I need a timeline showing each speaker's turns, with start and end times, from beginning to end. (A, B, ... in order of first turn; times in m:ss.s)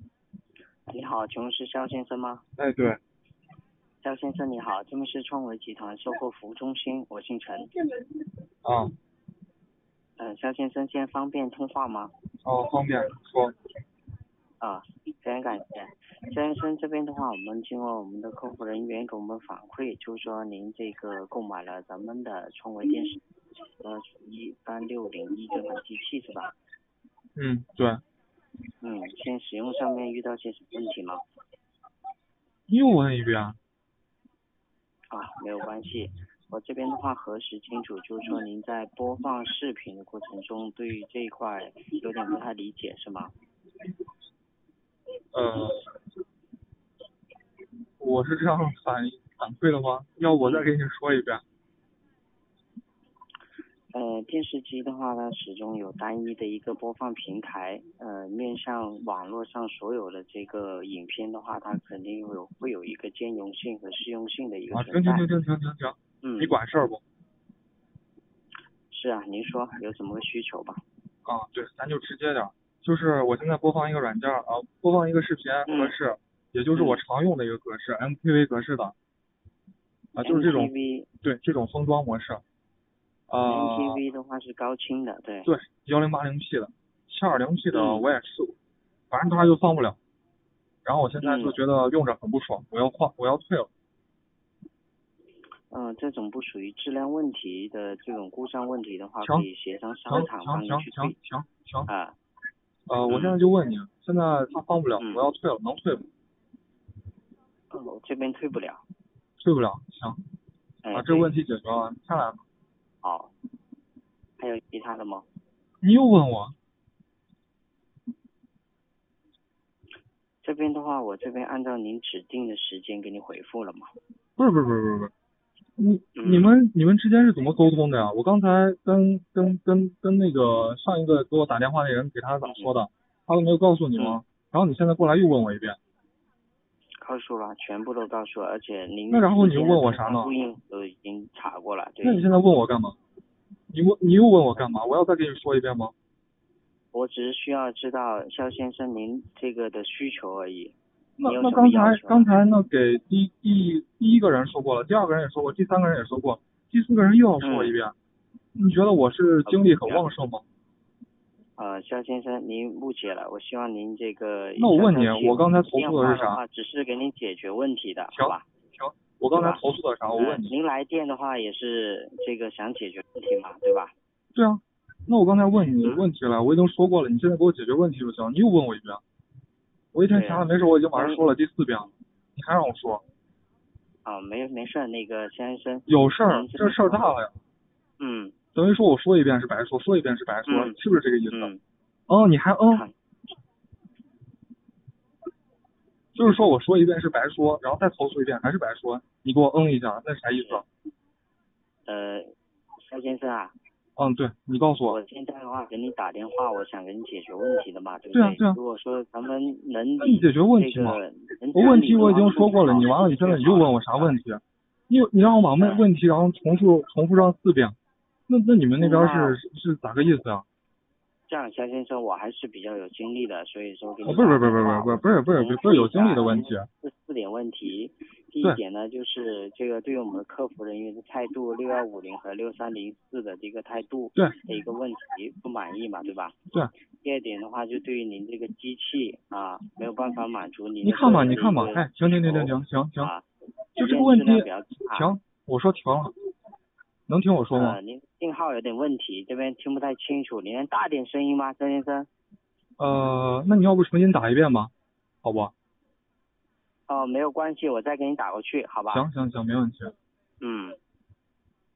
0:00.9-0:02.4 A
0:02.6-0:03.0 B
0:04.0-0:07.8 A
0:08.6-0:08.9 B
0:10.2-0:12.1 A
0:12.4-0:13.5 B
0:14.6-0:23.2 A
0:23.8-0:26.5 A
0:27.4-0:28.0 B
0:28.8-0:31.2 A
0:32.7-0:33.6 B
0:35.1-0:43.3 A
0:45.3-0:45.8 B
0:48.0-0:51.4 B
0:50.4-0:50.7 A
0:53.9-1:05.3 A
1:04.7-1:07.0 B
1:06.2-1:06.5 A
1:08.9-1:10.8 A
1:11.2-1:18.9 B
1:15.6-1:15.9 A
1:16.7-1:17.0 A
1:20.1-1:20.7 B
1:20.2-1:21.1 A
1:21.2-1:22.4 B
1:23.3-1:24.0 B
1:23.4-1:25.5 A
1:25.4-1:28.6 B
1:27.7-1:28.1 A
1:29.1-1:30.0 B
1:30.8-1:33.7 B
1:31.2-1:31.6 A
1:35.7-1:41.2 A
1:39.2-1:39.5 B
1:40.1-1:41.9 B
1:41.9-1:42.2 A
1:42.9-1:46.1 B
1:43.1-1:43.4 A
1:45.0-1:45.2 A
1:47.7-1:48.8 A
1:49.4-1:50.2 B
1:50.8-1:51.3 A
1:50.9-1:52.4 B
1:53.0-1:53.3 A
1:54.4-1:55.2 A
1:55.8-1:56.5 B
2:00.4-2:03.9 A
2:04.4-2:05.1 B
2:05.8-2:15.8 B
2:06.2-2:06.5 A
2:12.4-2:12.7 A
2:14.0-2:14.2 A
2:17.0-2:22.2 A
2:19.1-2:20.3 B
2:22.0-2:23.0 B
2:23.7-2:25.9 B
2:26.9-2:32.3 A
2:31.2-2:37.9 B
2:37.4-2:37.7 A
2:38.6-2:40.4 B
2:39.4-2:40.1 A
2:41.6-2:48.4 A
2:44.6-2:46.4 B
2:48.1-2:50.5 B
2:49.3-2:49.6 A
2:50.1-2:53.9 A
2:54.3-2:59.0 B
2:59.9-3:03.0 B
3:00.1-3:01.3 A
3:04.0-3:07.1 A
3:05.9-3:07.4 B
3:08.0-3:08.3 A
3:08.5-3:11.5 B
3:10.5-3:10.8 A
3:11.3-3:11.6 A
3:12.1-3:12.8 B
3:16.1-3:20.6 B
3:20.3-3:20.6 A
3:21.8-3:22.3 A
3:22.9-3:23.6 A
3:24.0-3:25.0 B
3:24.9-3:34.1 A
3:28.1-3:28.6 B
3:30.0-3:31.0 B
3:31.5-3:37.8 B
3:35.6-3:35.8 A
3:38.3-3:40.4 B
3:38.8-3:39.4 A
3:41.3-3:56.4 A
3:44.0-3:46.7 B
3:57.0-4:05.1 A
4:00.8-4:03.1 B
4:03.8-4:06.1 B
4:07.1-4:07.8 B
4:07.5-4:12.1 A
4:12.8-4:14.7 B
4:15.2-4:15.5 B
4:16.9-4:19.0 A
4:18.9-4:19.9 B
4:20.4-4:20.8 A